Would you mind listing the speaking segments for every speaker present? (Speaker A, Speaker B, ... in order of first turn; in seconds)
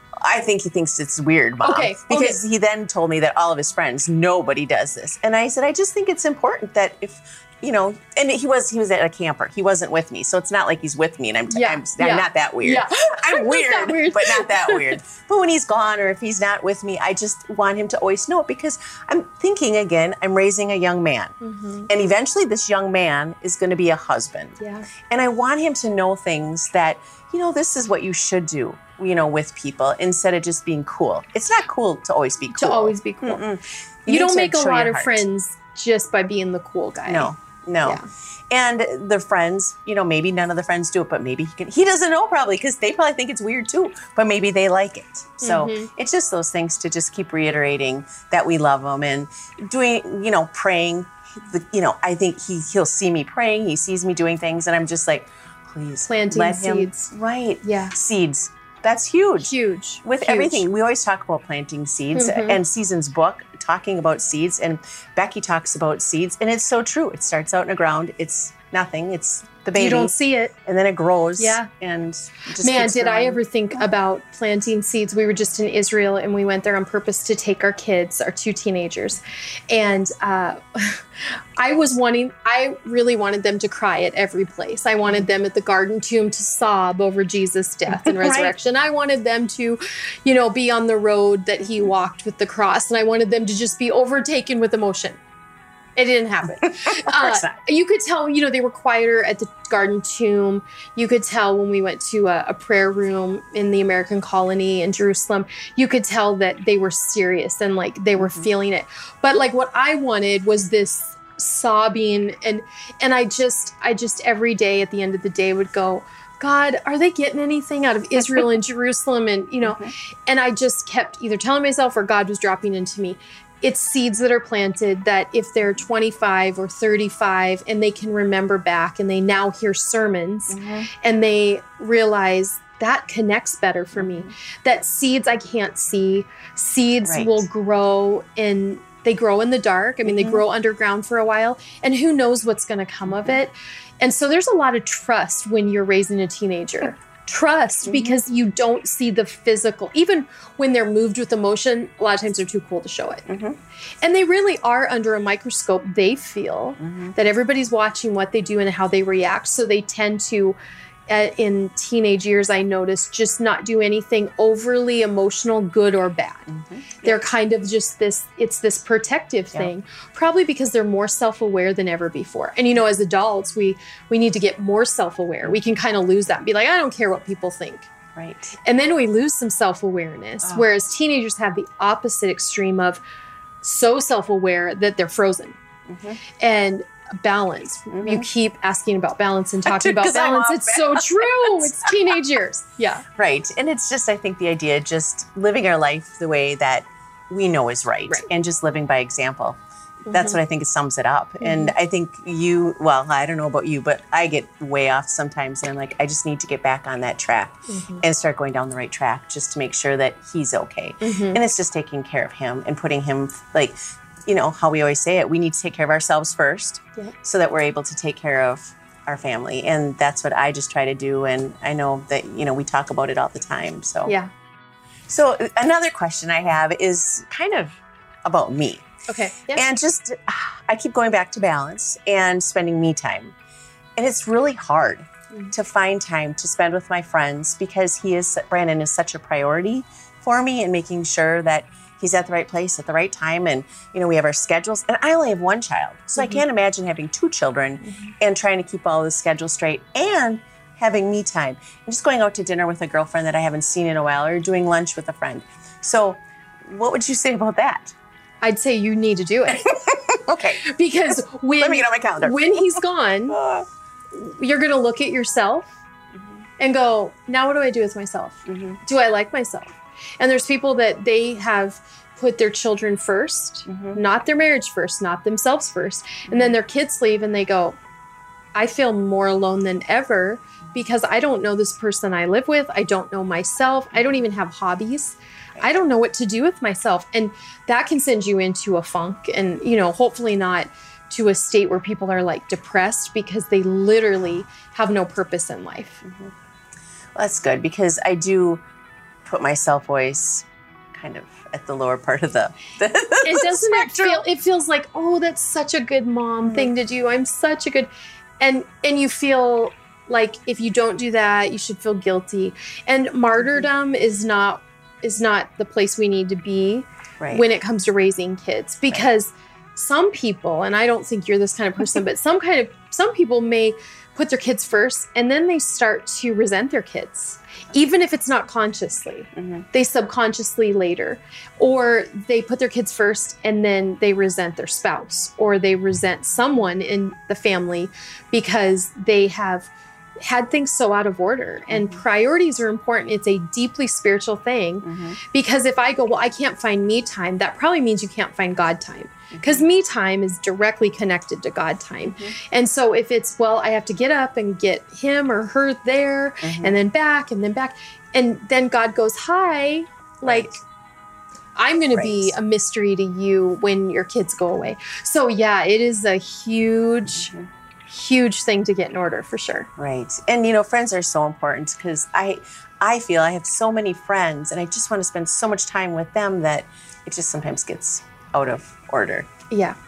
Speaker A: 0.2-21.4, 21.9-35.2, 37.1-70.1, 70.7-73.4, 87.9-88.5, 96.6-97.6, 108.2-108.5, 119.7-119.9, 130.5-130.9, 134.0-134.3, 137.1-137.5, 140.1-140.4, 147.8-148.2, 153.3-153.6, 156.8-157.2, 166.5-167.2, 178.2-178.5, 185.9-186.2, 187.9-188.3, 189.7-192.2, 193.1-224.2, 225.1-228.9, 229.5-233.3, 234.0-257.9, 259.5-260.6, 261.6-262.8, 263.3-263.7, 268.5-268.8, 273.7-274.0, 276.3-276.5, 296.1-296.3, 297.1-298.6, 299.2-304.2, 306.5-306.7, 313.4-313.7, 329.4-329.7, 341.7-342.0, 344.8-345.2, 349.3-349.7, 352.1-352.3, 356.4-356.8, 360.2-360.6, 361.9-362.4, 367.2-367.5, 369.8-379.3
Speaker B: 1.6-2.4, 11.5-15.0, 21.4-21.9, 24.6-24.9, 32.5-33.4, 34.1-37.3, 45.4-45.9, 56.0-57.1, 57.6-58.0, 59.4-60.6, 62.1-62.6, 69.8-70.5, 71.4-71.7, 72.6-95.2, 96.0-153.3, 154.0-160.6, 161.1-166.5, 167.0-177.9, 178.6-183.0, 183.6-185.6, 186.4-193.1, 200.1-200.4, 201.4-201.7, 207.7-208.0, 211.0-211.4, 224.1-224.3, 229.1-229.6, 247.8-248.1, 258.4-259.8, 260.6-263.4, 264.1-265.7, 266.6-277.8, 278.6-296.0, 303.2-307.9, 308.4-339.7, 340.2-360.6, 361.6-367.3, 367.9-369.7, 379.5-379.8